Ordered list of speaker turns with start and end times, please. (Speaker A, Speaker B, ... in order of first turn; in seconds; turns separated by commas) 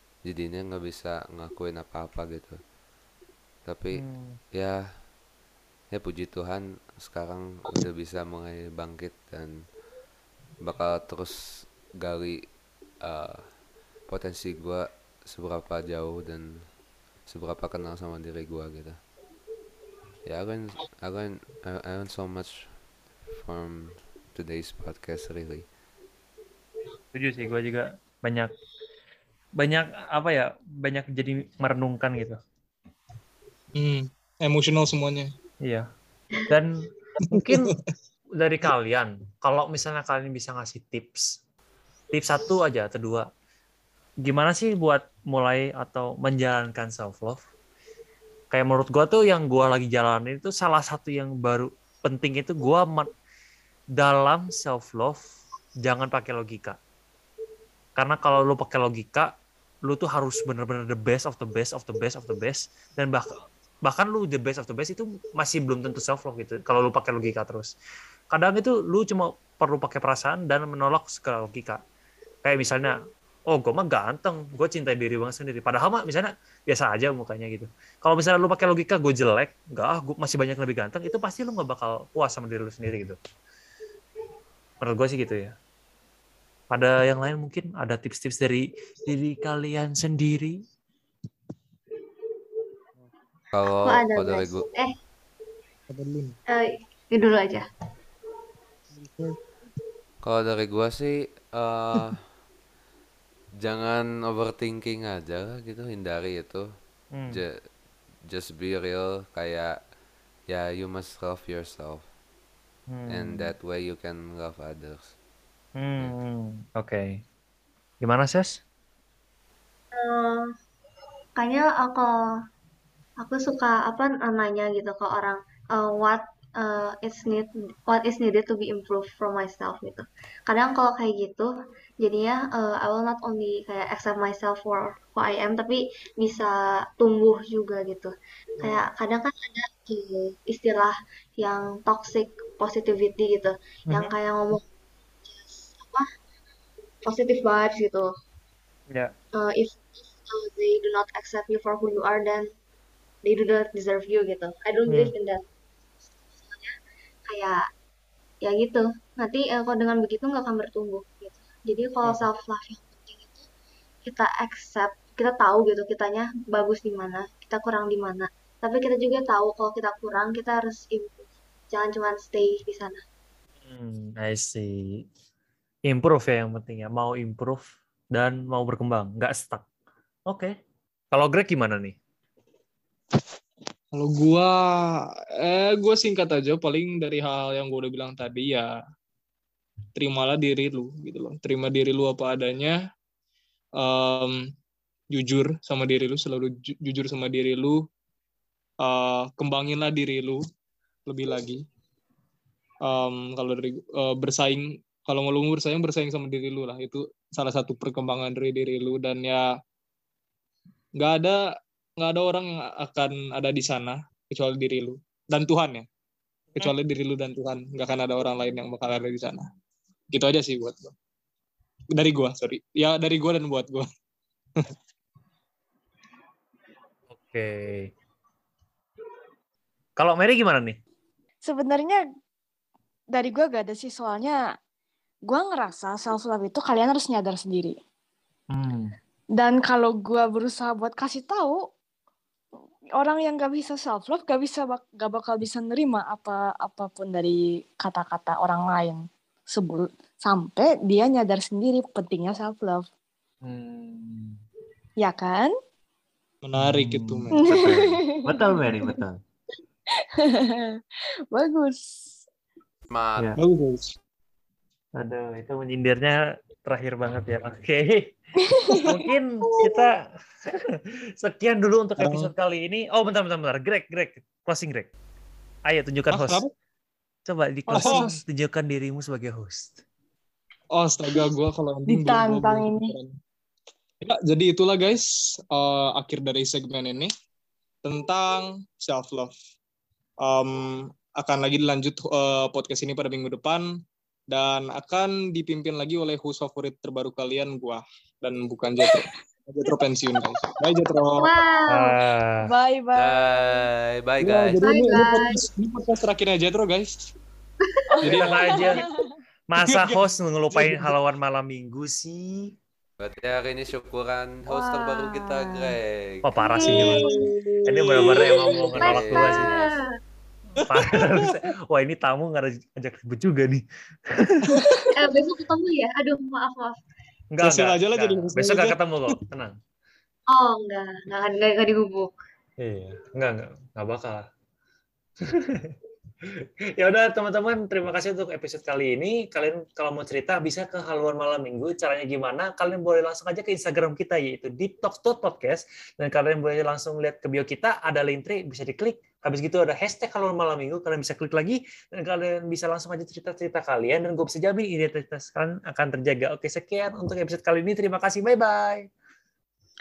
Speaker A: 0.2-2.6, Speaker A: 3.6-5.0, Speaker B: 3.9-4.4, Speaker A: 5.9-9.6, Speaker A: 10.6-12.4, Speaker A: 13.0-19.0, Speaker A: 20.2-25.7, Speaker B: 27.1-28.5, Speaker B: 29.6-32.4, Speaker C: 33.7-35.3, Speaker C: 37.2-37.8, Speaker B: 37.3-37.7, Speaker B: 38.4-41.3, Speaker B: 42.1-43.3, Speaker B: 44.2-47.4, Speaker B: 48.5-53.1, Speaker B: 54.0-55.2, Speaker B: 55.8-56.8, Speaker B: 58.0-59.3, Speaker B: 59.8-67.7, Speaker B: 68.3-71.8, Speaker B: 72.4-72.9, Speaker B: 73.5-83.2, Speaker B: 84.8-85.5, Speaker B: 86.7-90.6, Speaker A: 93.5-94.6, Speaker D: 93.8-94.9, Speaker C: 95.9-96.4, Speaker D: 96.5-97.6, Speaker C: 98.9-99.4, Speaker A: 100.2-102.3, Speaker A: 103.6-106.7, Speaker B: 107.1-107.4, Speaker A: 107.3-107.6, Speaker A: 108.2-109.8, Speaker A: 110.5-112.0, Speaker B: 112.9-113.5, Speaker A: 113.1-115.1, Speaker B: 115.7-117.2, Speaker B: 118.0-118.6, Speaker D: 119.9-120.5, Speaker D: 121.4-122.2, Speaker D: 123.2-144.7, Speaker B: 138.6-138.9, Speaker B: 143.9-144.1, Speaker D: 145.2-146.1, Speaker D: 147.0-148.1, Speaker D: 149.3-152.5, Speaker D: 153.2-155.4, Speaker D: 156.4-156.7, Speaker D: 157.3-157.6, Speaker D: 158.4-163.4, Speaker D: 164.0-173.0, Speaker B: 173.6-175.0, Speaker B: 175.9-179.6, Speaker B: 180.3-180.5, Speaker B: 181.1-181.9, Speaker C: 183.9-188.7, Speaker C: 189.9-192.8, Speaker C: 193.8-194.4, Speaker C: 195.1-197.8, Speaker C: 198.8-200.4, Speaker C: 201.1-201.6, Speaker C: 202.8-209.4, Speaker C: 211.0-211.4, Speaker C: 212.0-215.8, Speaker C: 216.5-219.4, Speaker C: 220.1-220.9, Speaker C: 221.9-223.9, Speaker B: 227.2-227.9, Speaker B: 230.0-230.8, Speaker E: 231.4-232.0, Speaker E: 233.1-234.4, Speaker E: 235.3-237.7, Speaker B: 238.5-238.9, Speaker E: 239.4-241.6, Speaker E: 243.0-249.0, Speaker E: 249.5-252.9, Speaker B: 253.4-254.4, Speaker E: 255.0-255.5, Speaker C: 256.4-257.6, Speaker B: 256.6-259.1, Speaker E: 257.5-258.2, Speaker E: 260.2-260.6, Speaker E: 261.3-262.1, Speaker A: 262.9-263.3, Speaker C: 263.4-263.9, Speaker B: 265.0-268.1, Speaker E: 268.5-268.8, Speaker B: 268.8-274.9, Speaker C: 269.4-269.9, Speaker C: 272.0-272.3, Speaker B: 275.7-276.4, Speaker C: 276.1-276.5, Speaker B: 277.2-279.8, Speaker C: 277.7-278.1, Speaker C: 280.7-283.1, Speaker E: 281.9-282.9, Speaker C: 284.0-287.1, Speaker C: 287.8-289.3, Speaker C: 290.2-290.6, Speaker C: 291.2-293.6, Speaker C: 294.3-301.3, Speaker D: 301.2-301.9, Speaker B: 301.7-302.4, Speaker E: 302.4-303.6, Speaker A: 302.9-304.6, Speaker C: 304.2-307.1, Speaker D: 304.6-305.4, Speaker E: 307.9-308.9, Speaker C: 308.0-308.8, Speaker B: 308.1-308.8, Speaker B: 309.5-312.5, Speaker C: 309.6-310.0, Speaker C: 310.5-310.9, Speaker A: 313.0-316.3, Speaker E: 314.5-315.8, Speaker B: 316.2-317.1, Speaker C: 316.6-318.8, Speaker B: 317.7-319.5, Speaker A: 318.7-319.8, Speaker D: 318.8-319.9, Speaker C: 320.6-321.5, Speaker B: 320.6-324.6, Speaker C: 324.5-324.9, Speaker D: 324.9-326.8, Speaker B: 327.3-329.6, Speaker C: 327.4-329.2, Speaker D: 330.3-332.1, Speaker B: 332.6-334.2, Speaker B: 335.2-358.9